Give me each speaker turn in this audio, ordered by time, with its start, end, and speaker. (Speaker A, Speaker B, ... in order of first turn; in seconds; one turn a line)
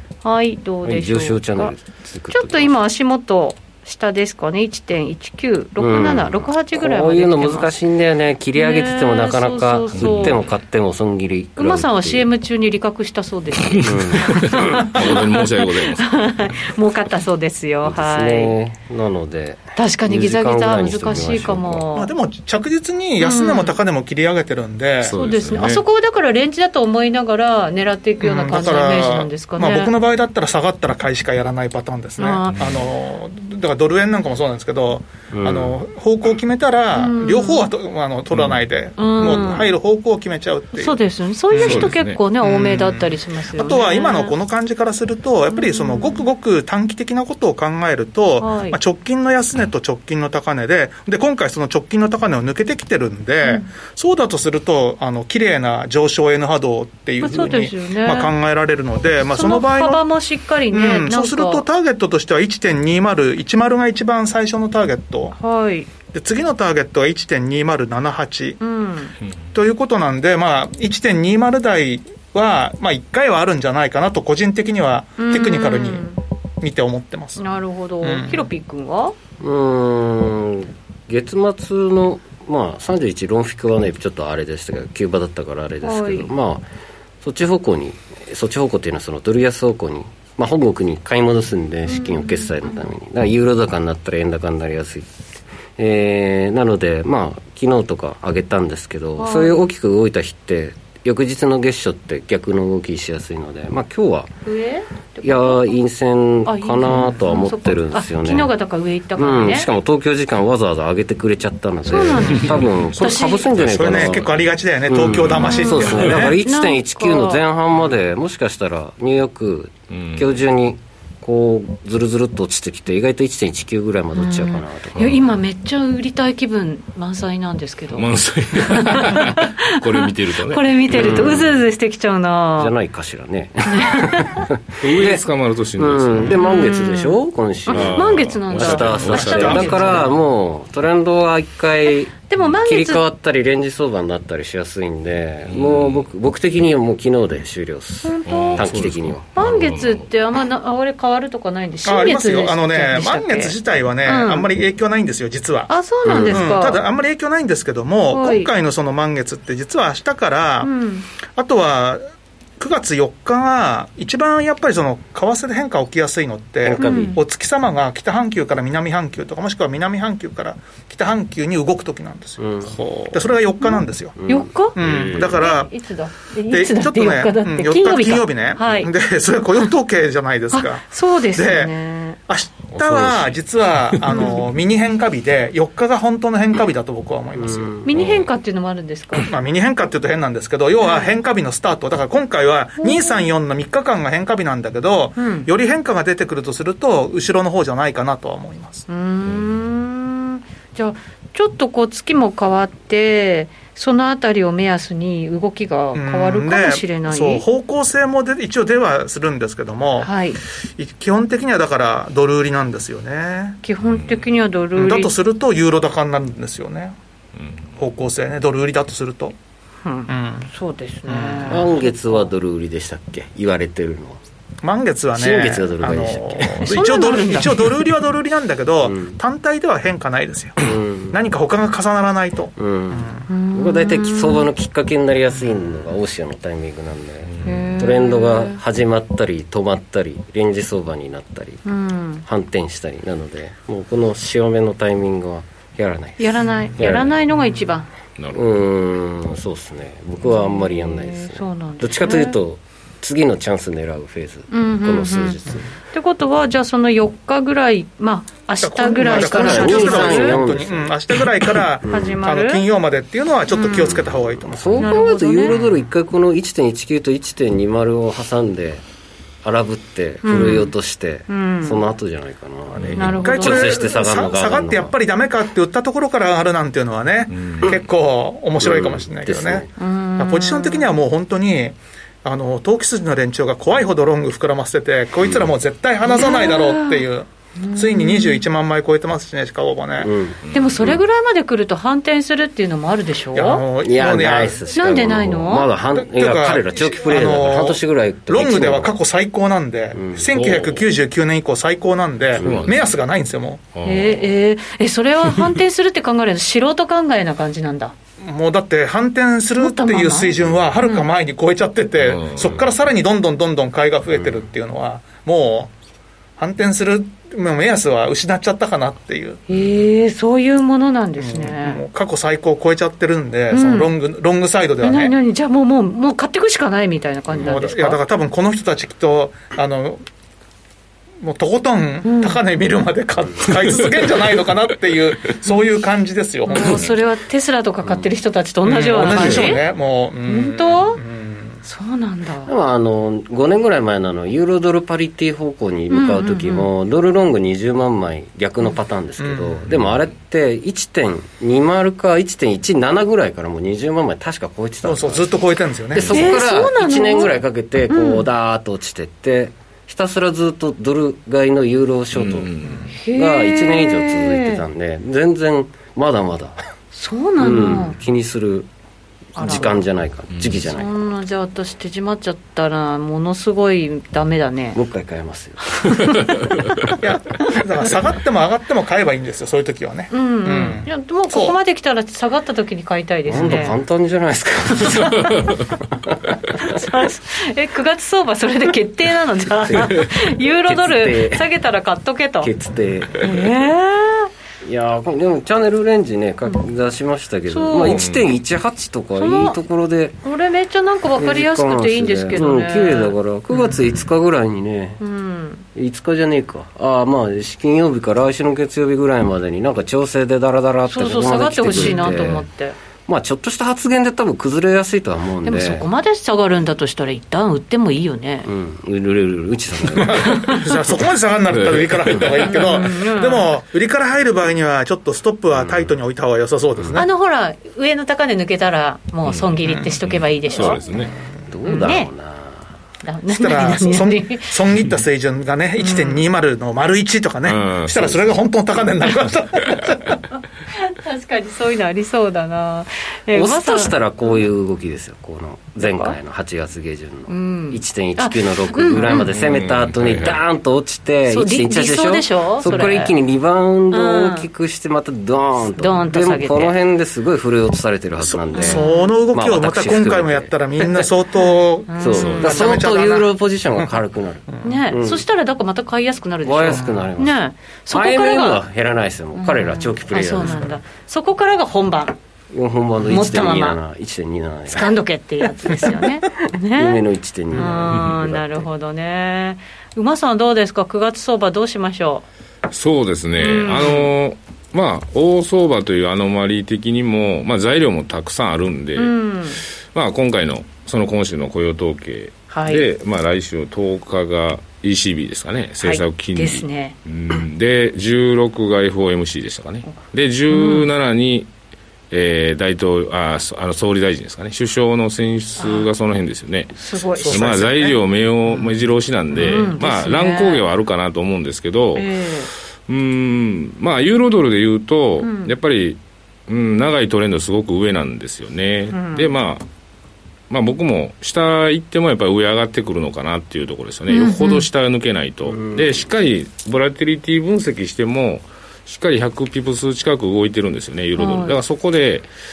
Speaker A: 0.2-1.8
Speaker B: 0.8-2.7
Speaker A: 2.3-7.7
Speaker B: 5.8-12.3
Speaker A: 8.6-10.4
Speaker C: 9.9-10.4
Speaker A: 11.6-18.5
Speaker C: 13.6-16.1
Speaker B: 13.8-14.9
Speaker B: 17.8-21.9
Speaker A: 19.8-22.1
Speaker D: 21.9-25.2
Speaker A: 23.2-23.8
Speaker C: 25.0-25.8
Speaker A: 25.1-29.9
Speaker D: 28.2-41.0
Speaker A: 32.2-32.6
Speaker B: 35.3-35.8
Speaker A: 36.9-37.7
Speaker A: 39.0-39.7
Speaker A: 40.8-44.3
Speaker D: 41.5-60.0
Speaker C: 41.6-42.2
Speaker A: 45.5-46.2
Speaker A: 48.4-48.8
Speaker A: 53.4-53.7
Speaker A: 57.2-58.3
Speaker A: 59.3-61.6
Speaker D: 60.7-65.3
Speaker A: 65.3-65.9
Speaker D: 66.1-68.6
Speaker A: 68.6-69.2
Speaker D: 69.5-76.1
Speaker A: 75.2-76.2
Speaker D: 76.6-77.4
Speaker A: 77.4-79.2
Speaker D: 78.0-78.5
Speaker B: 79.4-86.7
Speaker A: 85.8-86.3
Speaker B: 87.2-95.1
Speaker A: 91.9-92.6
Speaker B: 95.8-104.3
Speaker A: 99.2-99.6
Speaker A: 104.5-105.7
Speaker B: 105.2-108.5
Speaker A: 106.5-109.7
Speaker B: 109.2-114.3
Speaker A: 111.9-113.5
Speaker C: 112.3-112.8
Speaker C: 113.5-114.3
Speaker D: 113.6-116.4
Speaker B: 114.9-125.2
Speaker C: 115.0-116.2
Speaker A: 115.4-117.4
Speaker C: 119.9-120.4
Speaker A: 124.2-132.7
Speaker C: 127.9-131.4
Speaker B: 130.9-131.6
Speaker B: 132.6-135.2
Speaker A: 133.7-134.4
Speaker C: 134.8-136.4
Speaker B: 135.8-149.2
Speaker A: 136.3-140.1
Speaker C: 137.7-140.0
Speaker D: 139.2-140.1
Speaker A: 142.3-143.0
Speaker C: 145.5-146.1
Speaker A: 148.0-148.7
Speaker C: 148.3-150.1
Speaker A: 149.3-154.5
Speaker D: 151.8-160.7
Speaker A: 155.7-156.8
Speaker B: 156.1-156.6
Speaker A: 158.1-158.5
Speaker A: 160.6-161.1
Speaker D: 161.3-162.0
Speaker D: 162.6-174.2
Speaker B: 166.6-167.2
Speaker A: 166.8-167.2
Speaker B: 172.4-172.8
Speaker A: 173.6-178.9
Speaker B: 174.2-175.4
Speaker D: 174.8-175.7
Speaker D: 176.5-181.7
Speaker A: 180.5-182.2
Speaker D: 182.3-187.8
Speaker C: 182.8-183.3
Speaker B: 187.3-188.2
Speaker A: 187.8-189.3
Speaker D: 189.2-198.8
Speaker A: 190.8-191.1
Speaker A: 192.8-193.2
Speaker A: 195.2-195.5
Speaker A: 198.9-207.4
Speaker D: 205.9-210.1
Speaker A: 210.0-210.4
Speaker D: 210.8-213.6
Speaker A: 213.6-215.1
Speaker D: 214.8-217.0
Speaker D: 217.8-219.3
Speaker A: 219.8-222.2
Speaker D: 220.1-220.5
Speaker D: 221.1-221.7
Speaker B: 221.5-224.2
Speaker D: 224.6-233.3
Speaker B: 225.2-226.7
Speaker A: 226.6-227.8
Speaker B: 228.8-229.2
Speaker B: 230.6-231.2
Speaker B: 232.6-241.6
Speaker A: 233.3-234.5
Speaker A: 237.4-238.6
Speaker A: 241.7-242.2
Speaker B: 242.2-247.2
Speaker A: 246.2-247.9
Speaker C: 248.2-248.4
Speaker B: 248.3-255.7
Speaker A: 250.3-252.4
Speaker A: 254.5-260.4
Speaker D: 258.6-265.0
Speaker B: 259.0-261.0
Speaker B: 261.8-262.2
Speaker A: 261.9-262.6
Speaker A: 263.5-264.0
Speaker B: 263.8-268.8
Speaker A: 264.8-265.6
Speaker B: 269.4-274.9
Speaker A: 270.2-270.7
Speaker A: 271.3-271.8
Speaker C: 272.8-273.2
Speaker A: 273.0-273.9
Speaker D: 273.0-290.1
Speaker C: 277.4-277.7
Speaker B: 278.6-279.7
Speaker A: 279.8-280.9
Speaker A: 286.1-287.1
Speaker A: 287.6-288.4
Speaker B: 290.0-291.0
Speaker C: 290.5-290.9
Speaker A: 290.5-293.6
Speaker D: 293.3-294.9
Speaker B: 293.8-299.0
Speaker A: 294.7-295.7
Speaker D: 295.9-303.8
Speaker B: 299.9-300.2
Speaker C: 300.2-300.9
Speaker B: 302.4-302.7
Speaker C: 302.4-302.8
Speaker C: 303.7-304.2
Speaker A: 303.8-307.9
Speaker D: 308.2-315.7
Speaker A: 309.6-311.1
Speaker C: 312.0-312.6
Speaker B: 314.2-314.5
Speaker D: 316.4-319.4
Speaker A: 319.5-321.8
Speaker D: 321.2-325.1
Speaker A: 323.5-323.9
Speaker A: 324.8-328.0
Speaker D: 327.3-330.0
Speaker D: 331.2-336.9
Speaker A: 332.0-332.4
Speaker A: 336.5-339.6
Speaker D: 338.6-341.6
Speaker B: 339.0-339.5
Speaker A: 340.3-341.0
Speaker A: 341.6-342.5
Speaker B: 342.4-355.3
Speaker A: 345.9-346.7
Speaker D: 349.2-349.6
Speaker D: 354.9-356.4
Speaker B: 355.9-366.6
Speaker A: 356.1-358.3
Speaker C: 362.1-362.9
Speaker A: 362.9-364.6
Speaker A: 366.9-368.0
Speaker B: 367.4-368.7
Speaker A: 369.4-369.9
Speaker B: 369.4-370.9
Speaker A: 370.6-374.8
Speaker B: 374.8-376.1
Speaker A: 375.8-376.4
Speaker D: 377.0-381.6
Speaker A: 380.1-383.8
Speaker B: 383.3-386.8
Speaker A: 384.8-385.6
Speaker A: 386.5-392.5
Speaker B: 389.7-390.1
Speaker B: 390.7-391.5
Speaker B: 392.4-393.4
Speaker A: 393.2-394.3
Speaker B: 394.6-400.2
Speaker A: 397.5-398.1
Speaker C: 397.8-398.2
Speaker A: 399.2-399.6
Speaker A: 400.2-403.1
Speaker B: 401.2-405.0
Speaker A: 405.0-405.6
Speaker B: 405.8-412.5
Speaker A: 410.9-412.8
Speaker B: 413.1-415.9
Speaker A: 415.4-418.5
Speaker B: 418.4-420.4
Speaker D: 419.9-427.1
Speaker A: 420.3-420.6
Speaker C: 421.5-422.4
Speaker A: 422.4-423.5
Speaker B: 425.5-426.0
Speaker A: 426.9-430.9
Speaker D: 429.7-430.0
Speaker C: 430.0-431.1
Speaker D: 430.5-431.0
Speaker B: 431.5-432.7
Speaker A: 431.6-432.1
Speaker A: 433.0-434.6
Speaker D: 433.3-440.2
Speaker A: 435.8-436.2
Speaker C: 437.5-438.4
Speaker A: 440.7-444.4
Speaker B: 443.3-461.1
Speaker A: 445.8-446.2
Speaker A: 447.3-449.3
Speaker C: 449.1-450.4
Speaker A: 451.3-453.1
Speaker A: 453.9-454.5
Speaker A: 455.8-456.8
Speaker D: 458.2-463.3
Speaker A: 458.6-459.1
Speaker A: 461.9-462.7
Speaker B: 462.0-465.2
Speaker C: 462.1-462.8
Speaker D: 464.5-464.8
Speaker A: 464.6-468.6
Speaker B: 466.4-467.4
Speaker D: 466.7-467.1
Speaker B: 467.9-470.8
Speaker A: 469.4-472.2
Speaker B: 472.5-474.9
Speaker A: 473.1-473.8
Speaker A: 474.7-482.2
Speaker B: 475.6-478.7
Speaker C: 477.9-478.2
Speaker C: 482.7-501.5
Speaker A: 483.4-484.1
Speaker A: 489.0-489.6
Speaker A: 492.5-492.9
Speaker A: 495.8-497.0
Speaker A: 500.5-500.9
Speaker C: 502.1-512.1
Speaker A: 505.6-505.9
Speaker A: 506.8-507.7
Speaker D: 507.2-508.0
Speaker A: 509.3-510.6
Speaker A: 511.9-512.5
Speaker C: 512.9-519.6
Speaker A: 515.2-515.5
Speaker A: 518.9-519.3
Speaker C: 520.5-532.3
Speaker A: 524.1-524.7
Speaker B: 525.5-526.1
Speaker A: 531.2-531.6